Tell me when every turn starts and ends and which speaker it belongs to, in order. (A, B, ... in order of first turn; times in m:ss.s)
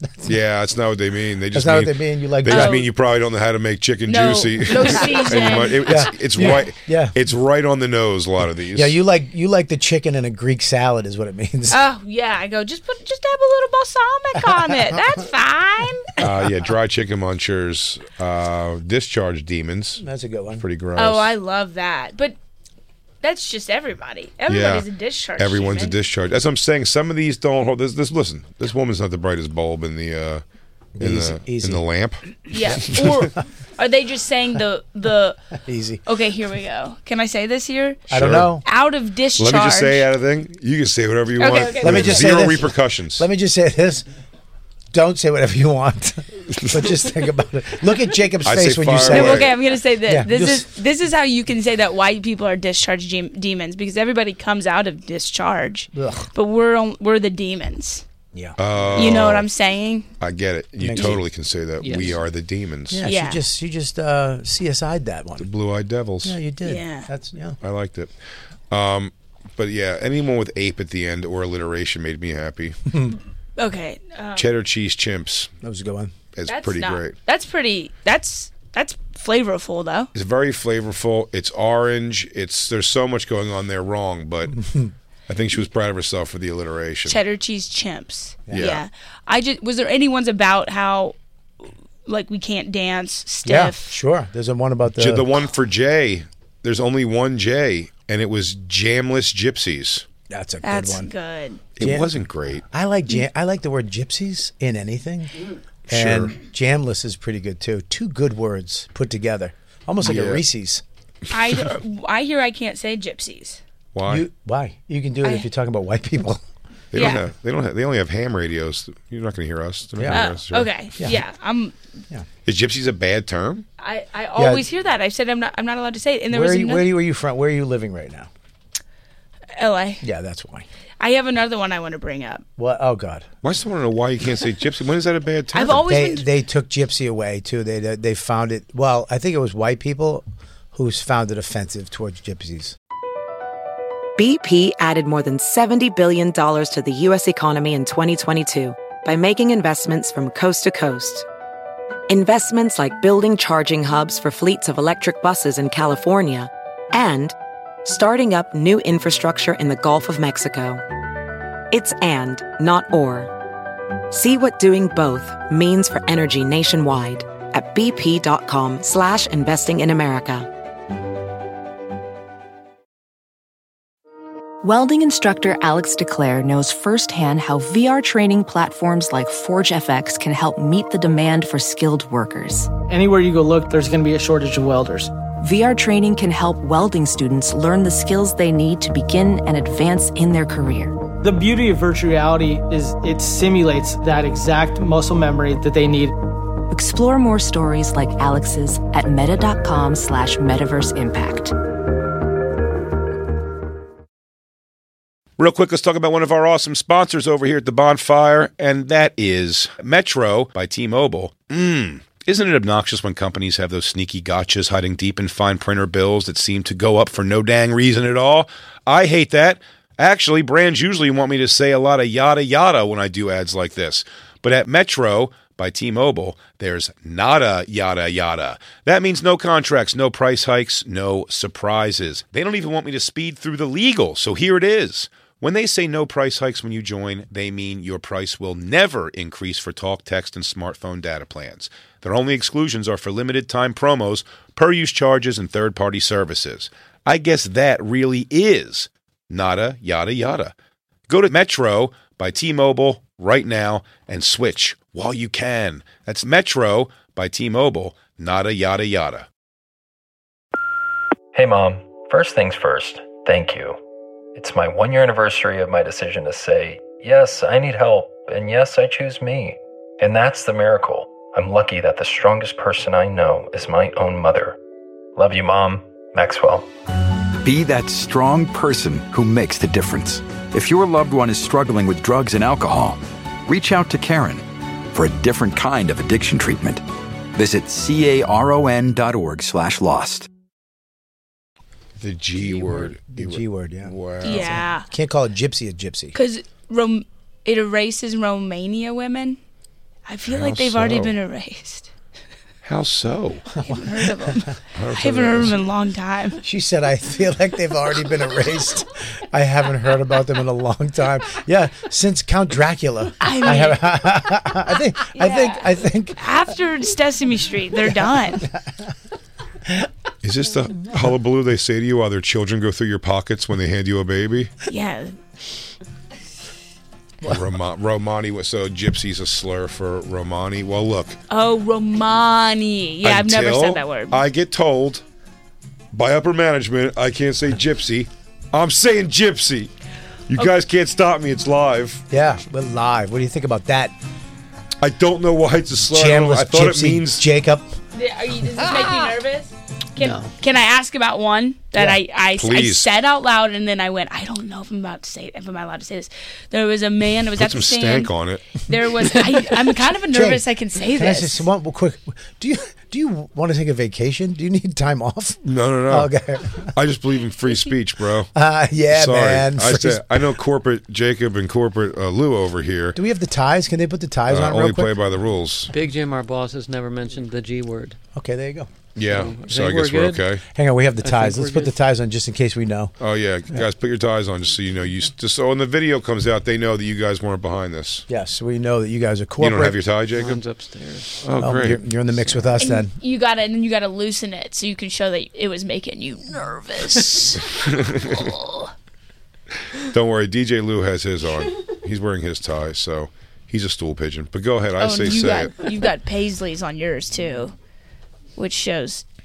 0:00.2-0:09.0 A
0:01.5-0:02.8 B
0:02.5-0:02.9 C
0:04.1-0:06.1 C
0:05.8-0:07.2 B
0:08.7-0:11.8 B
0:11.7-0:16.2 C
0:14.6-0:15.0 B
0:16.2-0:20.0 A
0:20.0-0:20.6 B
0:20.6-0:21.3 A
0:21.0-0:22.4 C
0:23.2-0:26.0 C
0:24.5-0:30.4 A
0:31.0-0:31.8 B
0:31.0-0:32.2 A
0:32.5-0:35.4 C
0:35.6-0:36.0 B
0:36.1-0:38.0 C
0:38.1-0:38.5 A
0:38.1-0:38.6 B
0:38.6-0:40.1 C
0:39.4-0:43.2 A
0:41.4-0:42.4 C
0:41.8-0:44.1 B
0:44.9-0:49.5 B
0:48.4-0:49.5 A
0:49.1-0:58.0 C
0:50.1-0:50.7 B
0:55.9-0:56.3 B
0:58.3-0:58.6 B
0:58.6-0:59.5 A
0:59.0-1:00.1 C
1:00.2-1:03.0 A
1:00.8-1:01.2 B
1:01.8-1:02.2 D
1:02.9-1:05.5 B
1:03.0-1:03.4 C
1:05.4-1:06.4 A
1:06.2-1:07.6 B
1:06.6-1:07.1 C
1:07.6-1:08.1 A
1:08.7-1:12.8 A
1:12.9-1:13.2 B
1:13.6-1:14.5 C
1:14.4-1:15.5 A
1:15.6-1:16.2 B
1:16.3-1:17.2 A
1:16.5-1:20.1 C
1:20.1-1:24.6 A
1:24.5-1:24.9 B
1:25.3-1:27.2 A
1:27.1-1:31.2 C
1:28.5-1:28.8 A
1:32.1-1:34.0 C
1:33.4-1:35.4 B
1:35.0-1:40.0 A
1:40.3-1:41.1 B
1:40.6-1:41.6 C
1:41.8-1:42.6 A
1:41.8-1:42.1 B
1:42.7-1:45.3 B
1:45.9-1:50.8 B
1:45.9-1:46.4 A
1:50.0-1:50.4 A
1:51.3-1:53.6 C
1:53.9-1:54.3 A
1:54.1-1:56.4 B
1:56.9-2:00.7 A
1:56.9-1:57.2 C
2:00.0-2:00.3 B
2:00.1-2:01.8 C
2:02.5-2:03.7 A
2:03.8-2:06.9 C
2:04.4-2:04.6 B
2:06.3-2:08.3 B
2:09.6-2:10.0 C
2:10.0-2:10.7 B
2:11.0-2:12.4 C
2:12.6-2:13.3 B
2:13.4-2:15.9 A
2:15.5-2:16.3 C
2:15.7-2:22.8 B
2:24.2-2:31.3 E
2:32.1-2:40.8 E
2:41.7-2:43.3 E
2:44.1-2:50.5 E
2:54.6-3:02.7 F
3:02.9-3:05.1 G
3:05.4-3:10.9 F
3:11.2-3:16.1 G
3:16.7-3:21.5 F
3:25.4-4:10.5 A
4:11.1-4:19.3 A
4:21.3-4:23.8 H
4:24.4-4:34.6 H
4:35.2-4:36.7 H
4:37.4-4:46.8 I
4:47.4-4:50.3 I
4:52.0-4:54.6 A
4:52.6-4:56.2 B
4:54.2-4:54.9 C
4:56.1-4:59.4 C
5:00.1-5:01.9 C
5:00.3-5:01.1 A
5:02.6-5:03.5 A
5:03.6-5:04.4 B
5:03.6-5:06.4 C
5:04.8-5:05.6 A
5:06.4-5:16.2 B
5:13.2-5:13.8 C
5:15.1-5:18.5 C
5:17.8-5:18.8 B
5:20.2-5:24.5 A
5:24.7-5:25.1 C
5:27.2-5:31.2 A
5:31.3-5:34.2 C
5:33.0-5:35.0 A
5:35.9-5:39.7 A
5:40.3-5:42.0 A
5:42.1-5:44.0 B
5:44.8-5:47.3 A
5:45.9-5:47.8 B
5:47.9-6:01.4 C
5:52.4-5:52.9 A
5:57.4-5:58.4 A
6:00.1-6:06.7 B
6:05.4-6:06.1 A
6:06.7-6:08.3 A
6:08.4-6:10.4 B
6:08.9-6:13.0 A
6:13.0-6:15.0 B
6:14.3-6:15.7 A
6:15.7-6:18.0 D
6:18.2-6:18.7 B
6:19.0-6:20.4 A
6:19.1-6:20.3 D
6:20.6-6:23.0 B
6:21.0-6:21.8 D
6:23.0-6:28.0 A
6:28.1-6:29.8 B
6:29.4-6:30.4 A
6:30.1-6:31.3 D
6:31.2-6:31.8 A
6:31.4-6:32.9 B
6:32.6-6:38.7 C
6:37.6-6:38.2 A
6:39.8-6:45.6 A
6:44.8-6:47.5 C
6:48.4-6:49.0 C